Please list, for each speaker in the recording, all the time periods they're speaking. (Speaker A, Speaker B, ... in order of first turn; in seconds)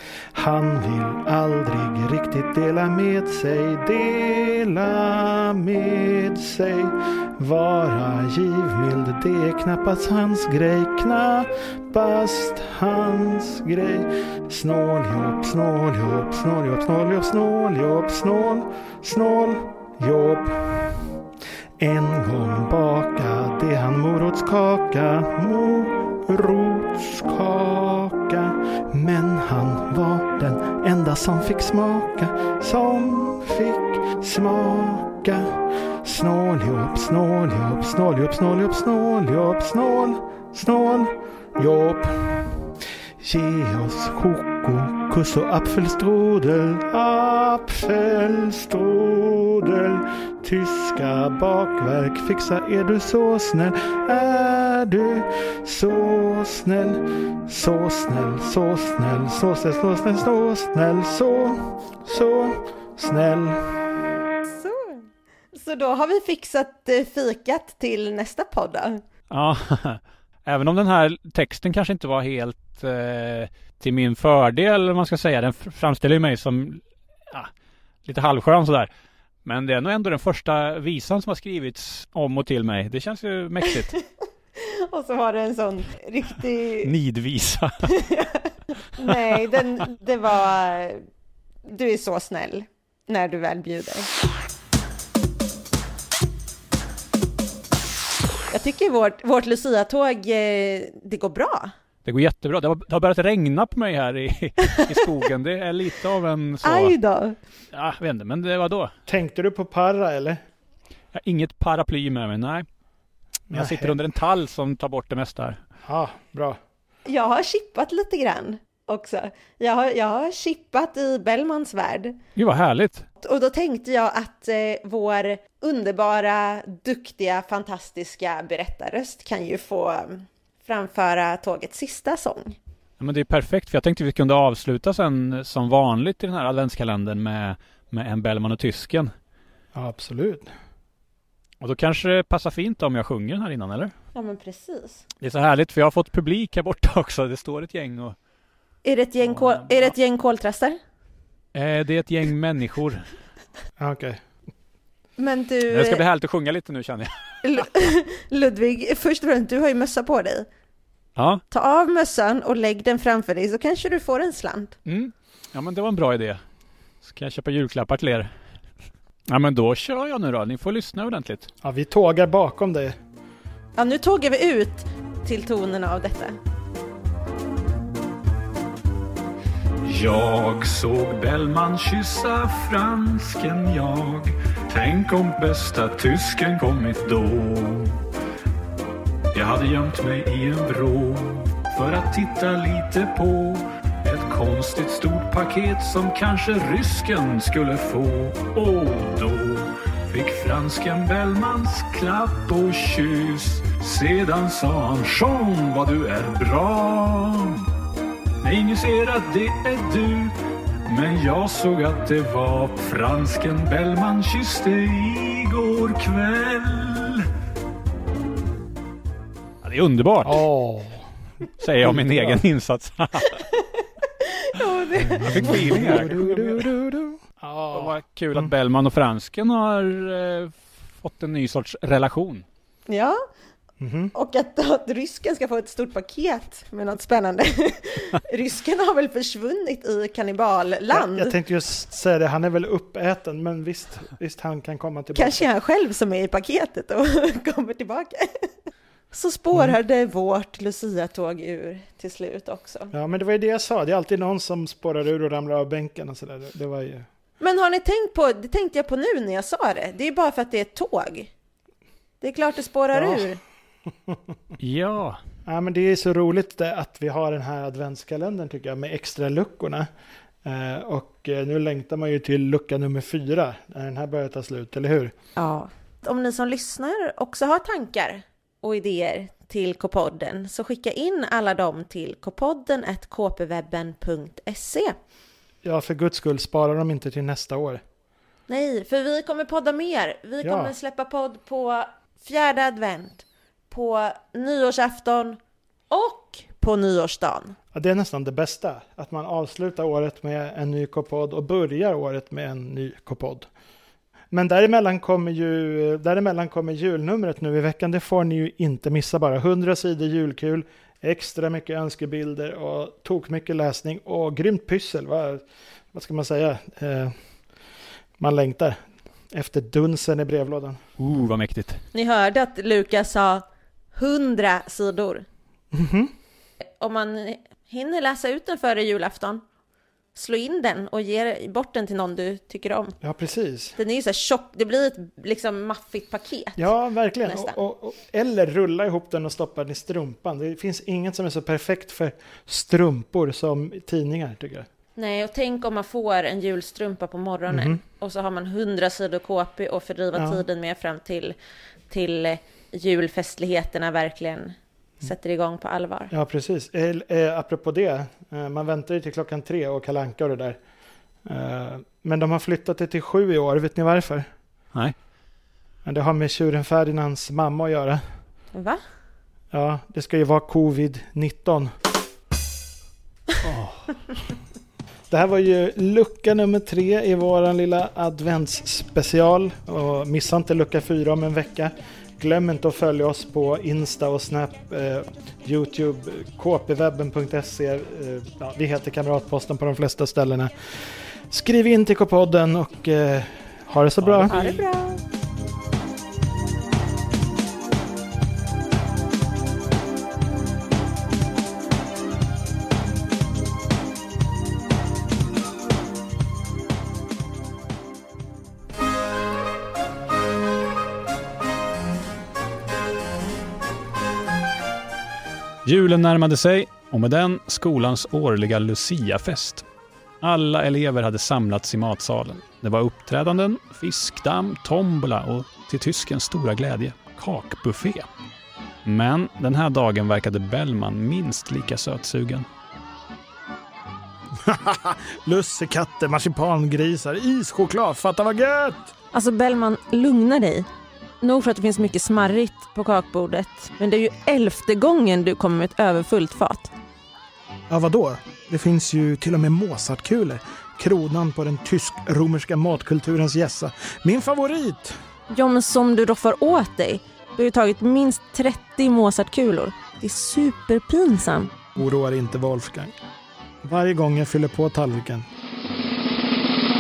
Speaker A: 0.3-20.9, 21.8-42.7, 43.2-63.6, 109.1-110.4, 113.5-114.0, 115.8-116.6, 139.7-140.5, 153.8-154.2, 171.6-173.0, 220.2-221.1, 221.8-222.4, 225.2-228.5, 233.8-234.1, 240.9-245.5, 252.9-257.1, 262.9-263.3, 264.1-264.3, 265.5-269.9, 270.4-275.1, 285.6-287.8, 290.4-290.7, 297.7-303.5, 304.3-317.2, 318.2-320.8, 325.7-326.1, 333.0-333.8, 336.6-344.7, 347.5-347.8, 350.1-350.4, 356.1-360.6, 361.2-364.3, 365.9-368.0, 369.5-371.7, 375.1-394.4, 434.4-438.9, 447.7-455.0, 461.8-462.9, 463.6-465.3
Speaker B: 64.5-69.0, 84.6-86.9, 87.9-91.0, 91.7-94.1, 98.5-101.7, 104.7-105.0, 106.6-107.4, 117.1-122.2, 123.2-132.6, 144.2-145.0, 148.8-150.8, 155.2-156.0, 157.4-160.5, 161.5-164.8, 173.8-176.4, 223.5-225.9, 232.9-233.2, 234.1-241.3, 245.2-248.5, 249.1-252.9, 257.4-261.3, 262.2-263.4, 275.4-285.0, 288.5-295.4, 295.9-297.6, 321.9-325.2, 326.8-329.4, 330.1-333.0, 333.8-336.7, 337.2-337.6, 345.0-351.4, 351.9-356.1, 368.5-368.8, 394.3-395.0, 439.1-440.7, 441.2-446.7, 455.3-461.6
Speaker C: 69.3-77.5, 78.0-78.9, 79.5-84.0, 86.8-87.9, 102.0-107.0, 107.7-108.9, 111.1-112.7, 113.5-115.6, 122.4-123.1, 133.0-139.1, 141.6-143.9, 145.2-148.2, 151.5-153.1, 155.7-157.1, 161.2-161.4, 164.9-166.4, 167.0-168.3, 169.3-171.5, 179.8-188.0, 189.3-207.7, 208.4-217.3, 219.6-220.4, 221.6-223.5, 225.2-226.7, 227.7-232.4, 264.6-265.2, 321.0-321.8, 373.4-373.9, 394.0-394.6, 415.6-419.6, 420.2-428.1, 428.9-432.5